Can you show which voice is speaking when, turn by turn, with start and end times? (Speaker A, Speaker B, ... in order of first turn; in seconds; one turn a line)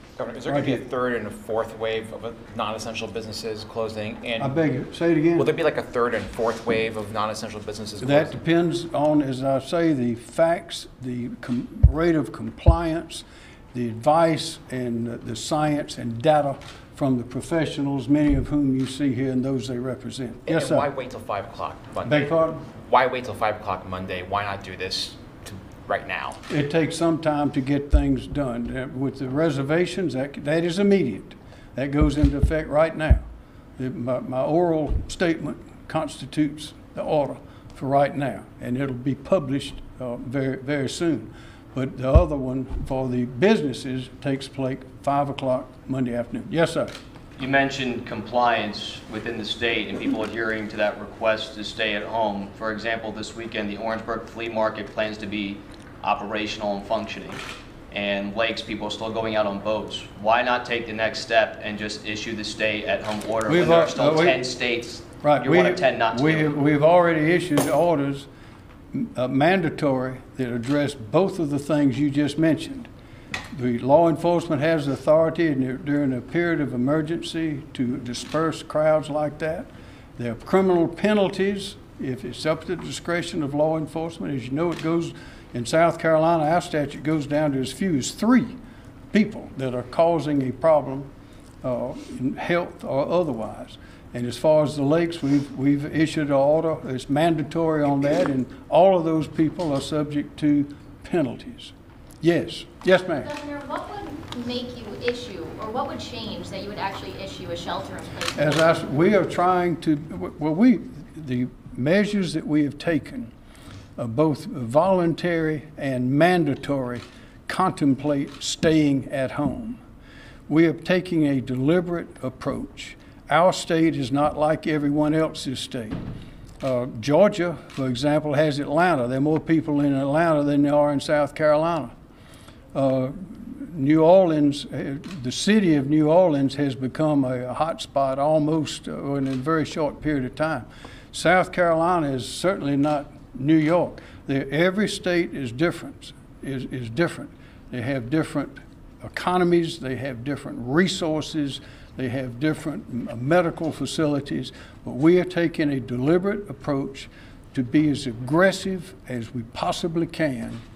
Speaker A: 0.2-4.7
Speaker B: 0.4-0.8
Speaker B: 4.4-5.5
Speaker A: 5.4-8.4
Speaker B: 8.0-20.9
Speaker A: 20.4-26.4
Speaker B: 22.0-22.7
Speaker B: 26.5-33.2
Speaker B: 33.8-46.9
Speaker C: 47.4-57.4
Speaker C: 57.9-66.5
Speaker B: 63.5-64.4
Speaker B: 65.2-68.3
Speaker B: 68.9-72.9
Speaker B: 73.5-88.5
Speaker B: 89.1-91.1
Speaker B: 91.6-103.3
Speaker D: 103.2-108.8
Speaker B: 108.3-113.3
Speaker B: 114.0-119.8
Speaker B: 120.5-126.0
Speaker B: 126.6-131.9
Speaker B: 132.7-160.6